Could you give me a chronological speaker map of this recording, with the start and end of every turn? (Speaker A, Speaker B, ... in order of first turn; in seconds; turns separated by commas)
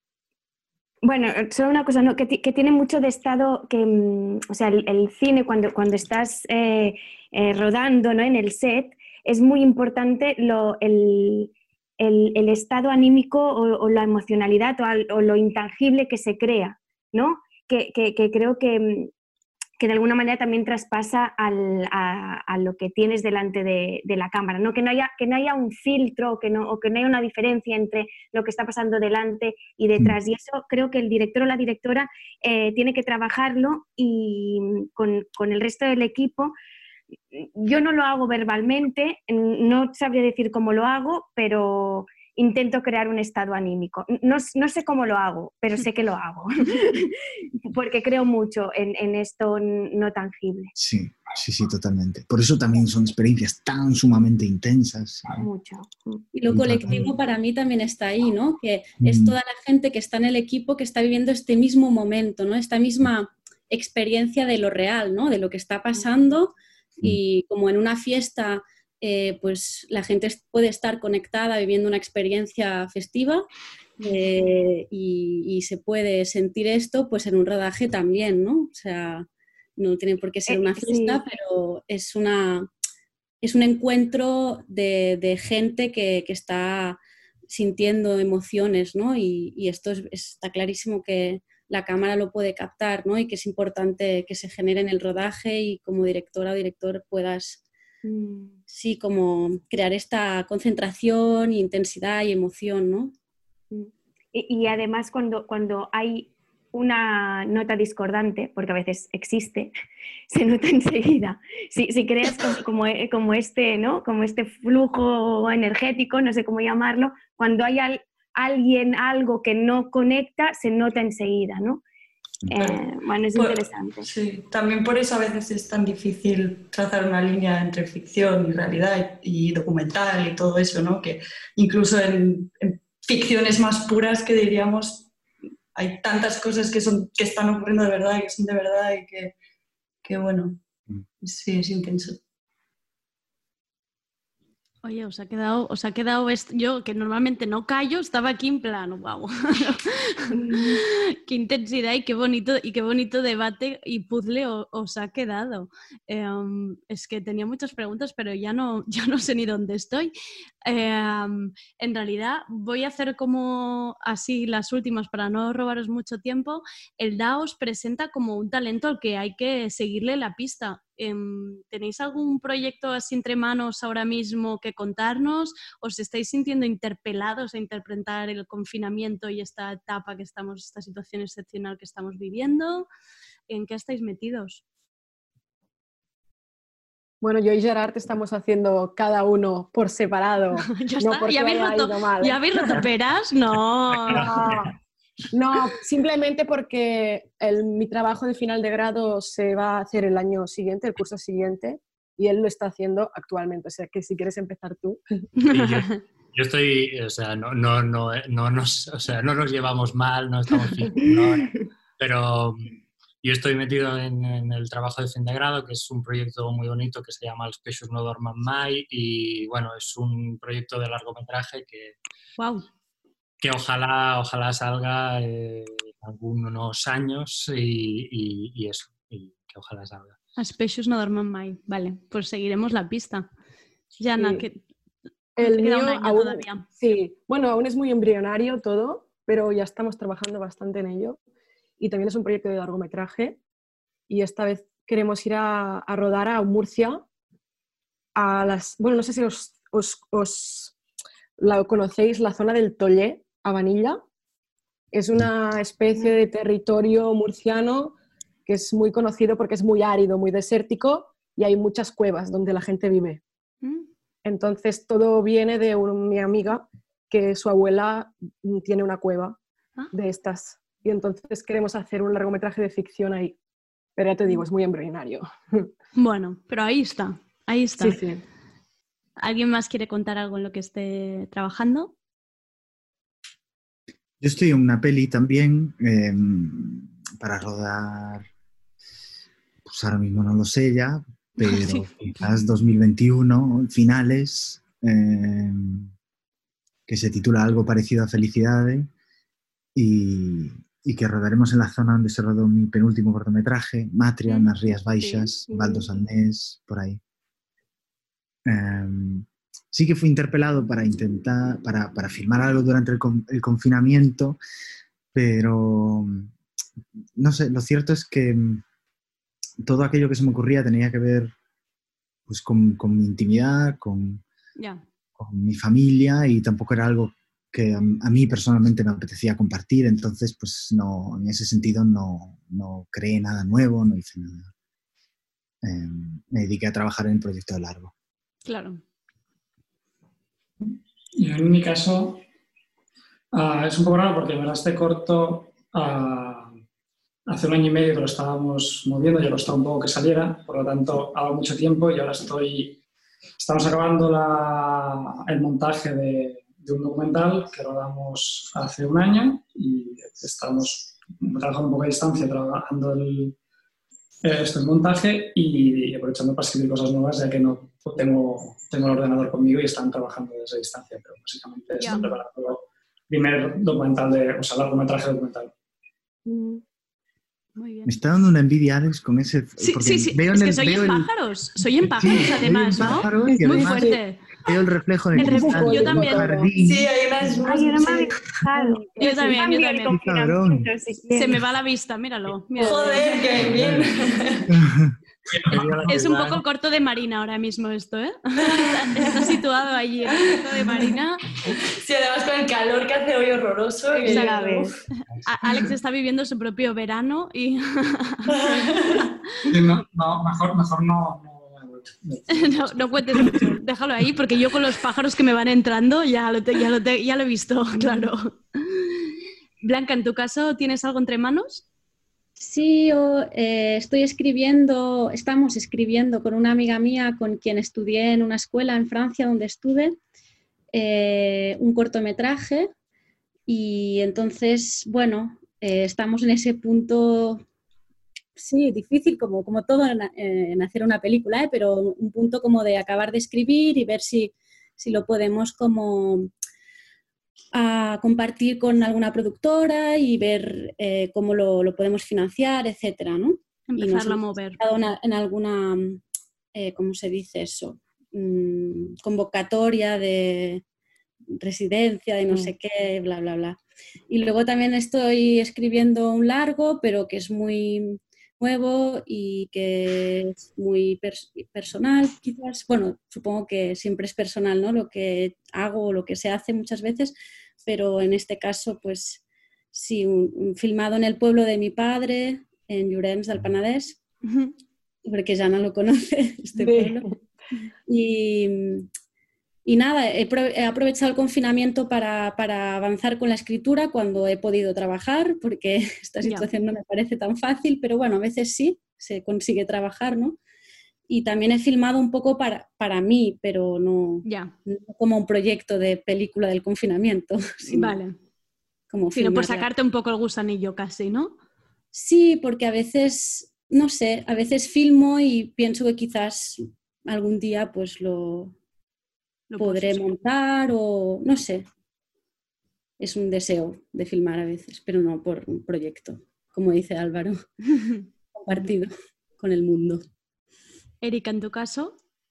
Speaker A: 1.0-19.1, Speaker A: 19.8-36.5, Speaker A: 37.3-50.7, Speaker B: 50.7-55.5, Speaker A: 55.4-56.2, Speaker C: 56.3-73.4, Speaker B: 56.5-57.1, Speaker B: 59.0-59.3, Speaker C: 74.0-82.7, Speaker A: 80.5-81.2, Speaker C: 83.4-97.6, Speaker A: 98.0-98.6, Speaker C: 98.7-103.1, Speaker A: 103.7-109.7, Speaker A: 110.3-121.8, Speaker A: 122.5-124.1, Speaker D: 122.5-122.8, Speaker D: 123.3-135.1, Speaker D: 135.7-139.3, Speaker D: 140.0-140.6, Speaker D: 141.2-142.2, Speaker E: 144.8-160.1, Speaker A: 150.3-150.8, Speaker E: 160.7-182.9, Speaker E: 183.5-184.6, Speaker F: 187.2-192.8, Speaker E: 190.7-194.3, Speaker F: 194.1-194.7, Speaker G: 194.2-194.5, Speaker F: 195.3-205.0, Speaker E: 205.4-206.0, Speaker G: 205.5-222.0, Speaker E: 222.4-222.7, Speaker G: 223.4-230.2, Speaker E: 230.4-233.3, Speaker E: 234.0-234.6, Speaker F: 234.2-234.4, Speaker F: 235.4-241.2, Speaker E: 235.4-236.6, Speaker F: 241.8-243.4, Speaker F: 244.1-247.0, Speaker F: 248.2-250.7, Speaker F: 251.4-254.0, Speaker F: 254.9-257.9, Speaker F: 258.4-263.2, Speaker F: 264.2-269.4, Speaker F: 269.9-273.4, Speaker F: 274.0-275.7, Speaker E: 275.9-278.0, Speaker F: 277.8-278.2, Speaker E: 279.2-281.9, Speaker B: 284.2-288.3, Speaker B: 289.6-295.9, Speaker E: 291.4-291.9, Speaker B: 296.9-298.9, Speaker B: 299.7-307.0, Speaker A: 305.5-305.8, Speaker B: 308.4-314.4, Speaker B: 315.1-316.3, Speaker B: 317.1-318.6, Speaker B: 319.6-321.3, Speaker B: 322.3-324.2, Speaker E: 324.6-324.8, Speaker B: 325.1-334.5, Speaker B: 335.6-337.9, Speaker E: 338.4-338.8, Speaker H: 340.6-342.2, Speaker H: 343.3-346.5, Speaker H: 347.3-352.8, Speaker H: 353.4-363.4, Speaker H: 364.2-375.5, Speaker E: 371.8-372.1, Speaker A: 376.3-376.5, Speaker E: 377.6-377.9, Speaker B: 377.8-381.1, Speaker E: 379.6-384.3, Speaker B: 381.6-386.9, Speaker F: 383.2-384.0, Speaker E: 385.1-386.3, Speaker F: 385.1-386.5, Speaker D: 386.6-388.1, Speaker A: 387.4-391.4, Speaker E: 389.0-389.9, Speaker B: 389.9-390.7, Speaker E: 391.1-393.3, Speaker D: 392.5-394.5, Speaker B: 393.4-393.9, Speaker B: 394.5-394.9, Speaker G: 395.5-396.4, Speaker E: 395.5-401.2, Speaker H: 395.5-395.9, Speaker D: 398.6-399.4, Speaker D: 400.1-401.0, Speaker D: 401.5-404.6, Speaker E: 403.9-404.7, Speaker A: 404.1-404.8, Speaker E: 405.2-408.7, Speaker D: 408.3-409.1, Speaker H: 409.5-413.5, Speaker E: 412.3-419.0, Speaker E: 419.6-421.6, Speaker C: 422.4-430.0, Speaker C: 430.7-432.7, Speaker C: 433.5-437.4, Speaker C: 438.4-446.3, Speaker C: 447.5-456.0, Speaker E: 453.7-454.6, Speaker C: 456.5-460.6, Speaker C: 461.3-463.6, Speaker C: 464.1-479.2, Speaker C: 479.7-484.0, Speaker E: 484.3-484.5, Speaker C: 485.0-487.1, Speaker F: 486.6-487.1, Speaker C: 487.9-488.9, Speaker C: 489.6-500.4, Speaker C: 501.1-508.0, Speaker E: 504.2-504.5, Speaker E: 507.7-508.1, Speaker C: 508.9-509.7, Speaker E: 509.1-511.3, Speaker C: 511.9-518.5, Speaker E: 519.5-520.1, Speaker C: 519.6-521.6, Speaker C: 523.0-527.4, Speaker C: 528.3-530.0, Speaker E: 531.0-531.9